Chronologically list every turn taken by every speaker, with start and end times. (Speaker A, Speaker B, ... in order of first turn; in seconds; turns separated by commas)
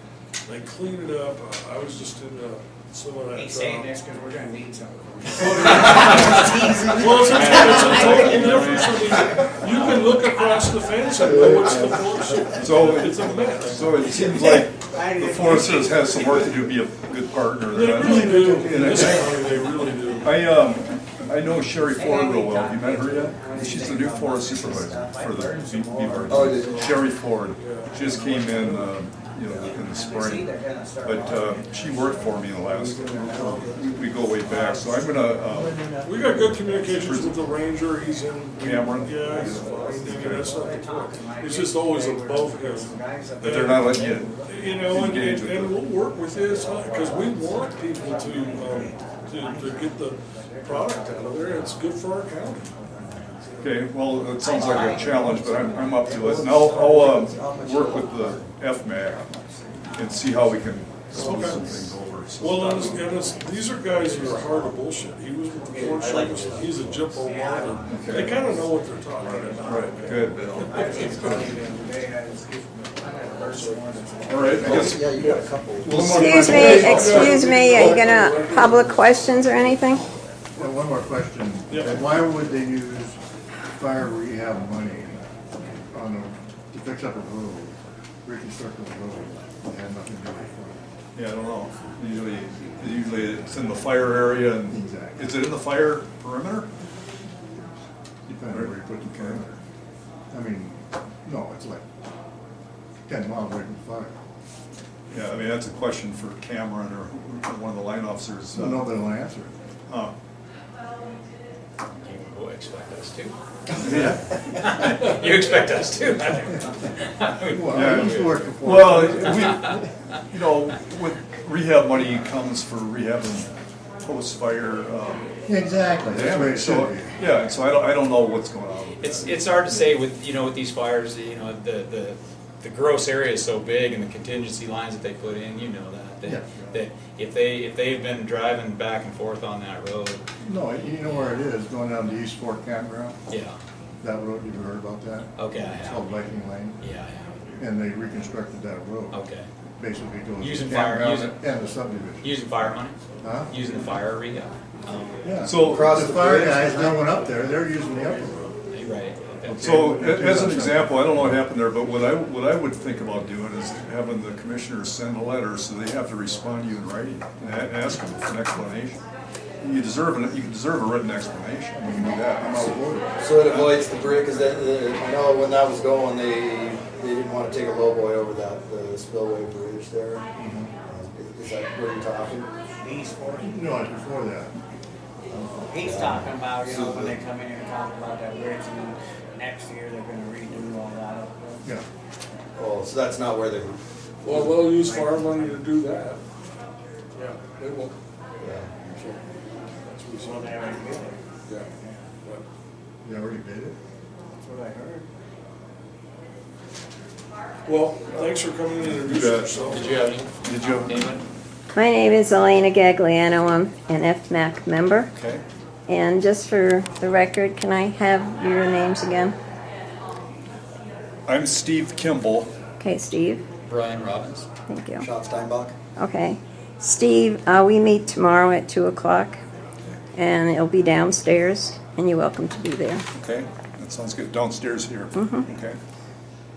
Speaker A: 0.5-4.0, Speaker B: 3.3-12.5, Speaker A: 5.3-14.0, Speaker C: 7.3-9.1, Speaker D: 11.2-12.0, Speaker E: 12.6-19.4, Speaker B: 14.2-16.7, Speaker A: 17.7-20.4, Speaker F: 18.3-18.7, Speaker B: 18.3-19.1, Speaker E: 20.2-37.3, Speaker B: 21.9-27.1, Speaker D: 26.3-26.9, Speaker A: 27.5-28.9, Speaker B: 28.0-28.8, Speaker B: 29.4-37.0, Speaker A: 36.0-52.7, Speaker E: 38.6-39.3, Speaker B: 39.1-45.0, Speaker E: 40.1-40.5, Speaker E: 43.4-44.4, Speaker E: 44.9-45.8, Speaker B: 46.2-51.9, Speaker B: 52.5-53.8, Speaker E: 53.6-59.4, Speaker B: 54.4-56.2, Speaker D: 56.1-58.5, Speaker B: 59.7-60.1, Speaker E: 59.9-63.0, Speaker A: 61.1-61.7, Speaker A: 62.4-71.5, Speaker B: 63.9-64.7, Speaker B: 65.6-75.2, Speaker D: 65.9-67.0, Speaker E: 67.9-68.3, Speaker E: 69.6-71.4, Speaker E: 74.3-77.8, Speaker D: 74.5-76.2, Speaker A: 75.1-75.5, Speaker F: 75.8-77.2, Speaker G: 76.2-80.1, Speaker A: 76.3-79.5, Speaker F: 80.5-83.2, Speaker A: 81.7-82.0, Speaker F: 83.7-85.2, Speaker F: 85.9-90.8, Speaker E: 91.1-96.7, Speaker F: 94.7-95.3, Speaker F: 98.3-99.5, Speaker E: 98.3-99.5, Speaker F: 100.3-101.8, Speaker F: 103.0-104.1, Speaker E: 105.1-108.9, Speaker F: 108.5-109.5, Speaker E: 109.9-110.1, Speaker C: 111.9-113.3, Speaker E: 113.8-114.2, Speaker C: 114.0-118.5, Speaker F: 117.4-119.8, Speaker E: 117.7-123.5, Speaker C: 119.3-119.8, Speaker E: 124.0-125.3, Speaker F: 125.5-127.2, Speaker E: 126.0-129.3, Speaker C: 129.0-140.2, Speaker F: 136.2-136.8, Speaker F: 140.4-143.2, Speaker C: 143.3-143.6, Speaker F: 144.0-146.8, Speaker C: 145.3-146.2, Speaker C: 146.8-147.4, Speaker F: 147.6-149.2, Speaker C: 149.1-149.5, Speaker F: 149.8-152.3, Speaker C: 150.4-151.4, Speaker C: 152.2-152.9, Speaker F: 153.2-153.7, Speaker C: 153.5-155.2, Speaker F: 155.2-158.5, Speaker E: 155.4-155.9, Speaker D: 155.5-157.1, Speaker C: 158.7-159.7, Speaker F: 159.4-161.3, Speaker E: 159.6-169.0, Speaker E: 169.6-172.8, Speaker F: 171.8-173.3, Speaker D: 173.2-180.2, Speaker E: 173.4-173.8, Speaker F: 180.3-180.7, Speaker D: 180.8-182.5, Speaker B: 182.8-183.6, Speaker F: 183.4-184.5, Speaker D: 185.3-187.2, Speaker B: 185.7-191.6, Speaker D: 192.6-194.4, Speaker A: 194.2-196.2, Speaker B: 194.4-195.6, Speaker A: 197.1-197.9, Speaker D: 198.4-199.2, Speaker A: 199.8-200.6, Speaker B: 200.2-202.2, Speaker F: 203.0-203.8, Speaker B: 204.4-205.1, Speaker A: 207.7-210.0, Speaker E: 208.8-209.6, Speaker C: 209.6-211.2, Speaker E: 210.4-211.1, Speaker G: 211.7-215.1, Speaker E: 215.1-215.4, Speaker G: 215.9-219.3, Speaker E: 221.3-222.5, Speaker G: 222.8-223.4, Speaker C: 223.7-224.5, Speaker G: 224.7-225.1, Speaker D: 225.0-225.7, Speaker G: 226.0-229.4, Speaker G: 230.2-233.0, Speaker E: 233.1-235.8, Speaker G: 235.1-235.5